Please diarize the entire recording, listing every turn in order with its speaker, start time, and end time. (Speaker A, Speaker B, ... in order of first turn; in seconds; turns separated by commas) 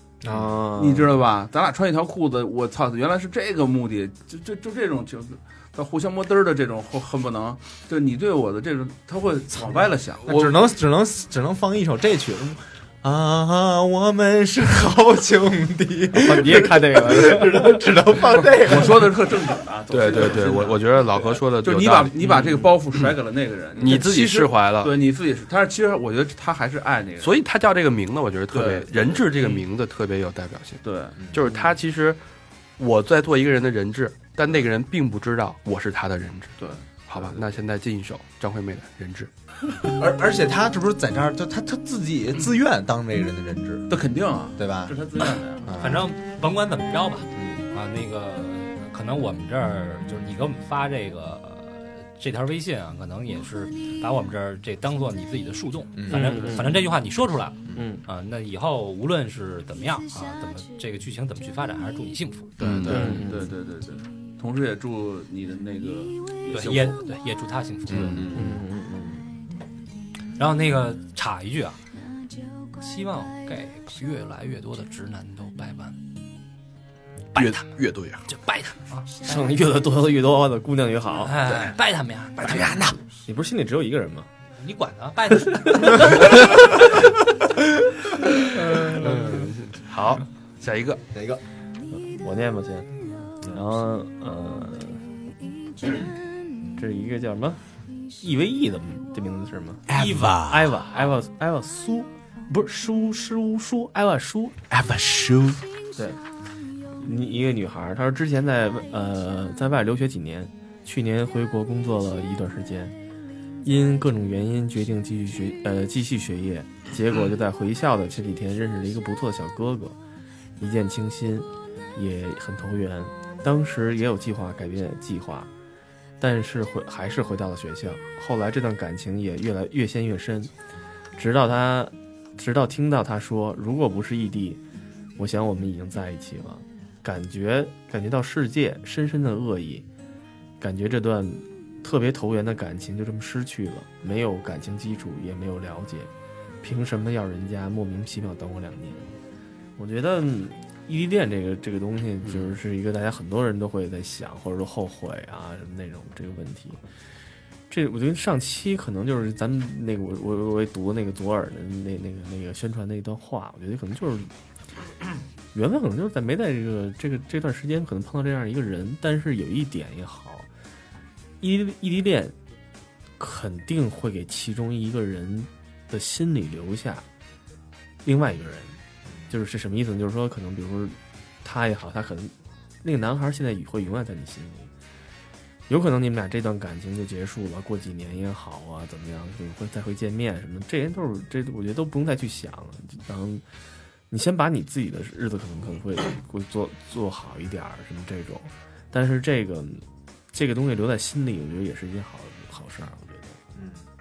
Speaker A: 0.2-0.5, Speaker B: 0.3-1.1, Speaker C: 0.7-10.6, Speaker A: 10.2-19.5, Speaker B: 16.1-17.8, Speaker C: 18.5-27.4, Speaker D: 19.9-23.1, Speaker D: 23.8-24.9, Speaker D: 27.2-32.2, Speaker C: 28.5-29.6, Speaker C: 30.8-31.2, Speaker D: 32.8-39.3, Speaker C: 36.6-37.4, Speaker A: 39.8-44.0, Speaker C: 43.9-45.7, Speaker A: 44.5-45.0, Speaker A: 45.6-46.1, Speaker E: 45.8-62.6, Speaker A: 47.4-47.6, Speaker A: 56.0-56.2, Speaker B: 56.1-56.9, Speaker C: 56.3-56.6, Speaker B: 57.7-58.0, Speaker A: 62.6-63.2, Speaker D: 62.6-63.0, Speaker C: 62.8-67.0, Speaker B: 62.9-63.5, Speaker E: 66.5-68.3, Speaker A: 67.9-68.5, Speaker C: 67.9-68.3, Speaker B: 68.3-69.3, Speaker E: 70.4-71.8, Speaker E: 72.8-76.0, Speaker E: 77.3-79.5, Speaker D: 77.3-78.2, Speaker B: 79.2-81.3, Speaker E: 81.2-83.0, Speaker A: 82.4-83.0, Speaker B: 83.2-84.3, Speaker E: 84.6-86.5, Speaker A: 88.7-89.5, Speaker D: 88.9-91.0, Speaker A: 91.1-91.4, Speaker B: 92.0-92.9, Speaker B: 93.5-95.1, Speaker B: 96.8-97.6, Speaker B: 98.2-104.6, Speaker A: 99.9-100.7, Speaker E: 99.9-100.3, Speaker A: 104.7-105.6, Speaker B: 107.0-112.9, Speaker B: 113.6-120.0, Speaker B: 120.6-125.5, Speaker B: 126.2-130.5, Speaker B: 131.2-134.6, Speaker B: 135.2-139.8, Speaker B: 140.6-146.1, Speaker B: 146.6-149.1, Speaker B: 149.8-156.8, Speaker B: 157.7-164.3, Speaker B: 165.5-170.5, Speaker B: 171.4-172.3, Speaker B: 173.2-177.0, Speaker B: 178.0-178.8, Speaker A: 179.1-179.3, Speaker B: 179.3-184.7, Speaker B: 185.7-193.4, Speaker B: 194.1-203.4, Speaker A: 203.6-203.8